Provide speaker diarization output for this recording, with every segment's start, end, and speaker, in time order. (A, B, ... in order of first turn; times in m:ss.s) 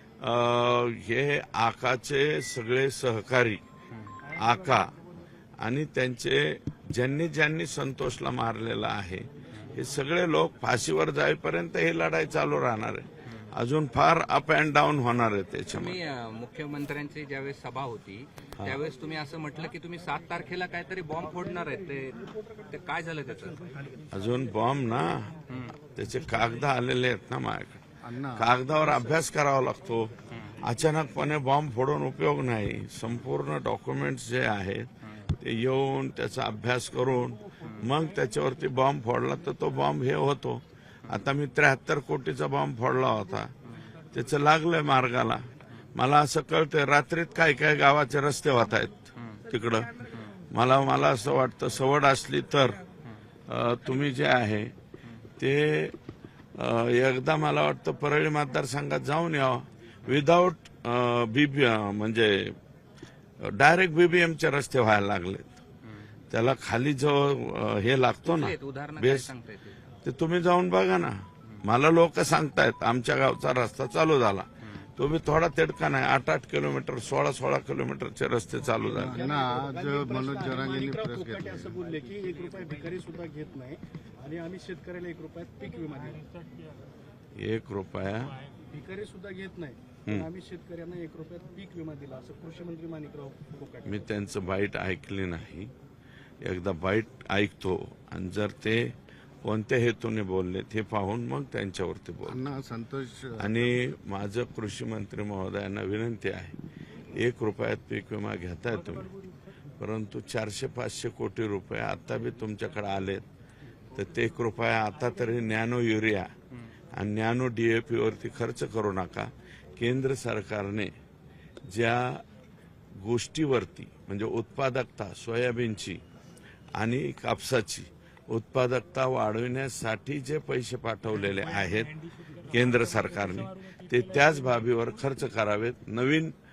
0:00.2-0:03.6 A
0:04.4-0:04.9 A
0:05.6-0:16.0 A
0:15.7-0:23.7 B
0:24.1-0:43.5 A
0:25.5-0:25.7 B
0:28.0-0:28.5 C
0:44.1-0:52.8 A
0:53.5-0:54.7 A
0:55.4-0:56.0 A
0:56.6-1:02.6 A
1:03.4-1:05.6 A
1:06.3-1:09.3 A
1:08.2-1:09.8 B
1:10.0-1:19.2 A
1:18.9-1:21.8 C
1:18.9-1:26.2 D
1:27.4-1:28.4 A
1:28.7-1:34.0 D
1:33.8-1:35.7 A
1:36.4-1:38.9 A
1:39.4-1:42.4 A
1:42.2-1:43.7 C
1:43.4-1:46.6 A
1:47.2-1:49.1 A
1:49.8-1:53.3 A
1:53.9-1:56.3 A
1:56.9-2:00.9 A
2:01.7-2:02.2 A
2:03.0-2:06.0 A
2:06.8-2:16.3 A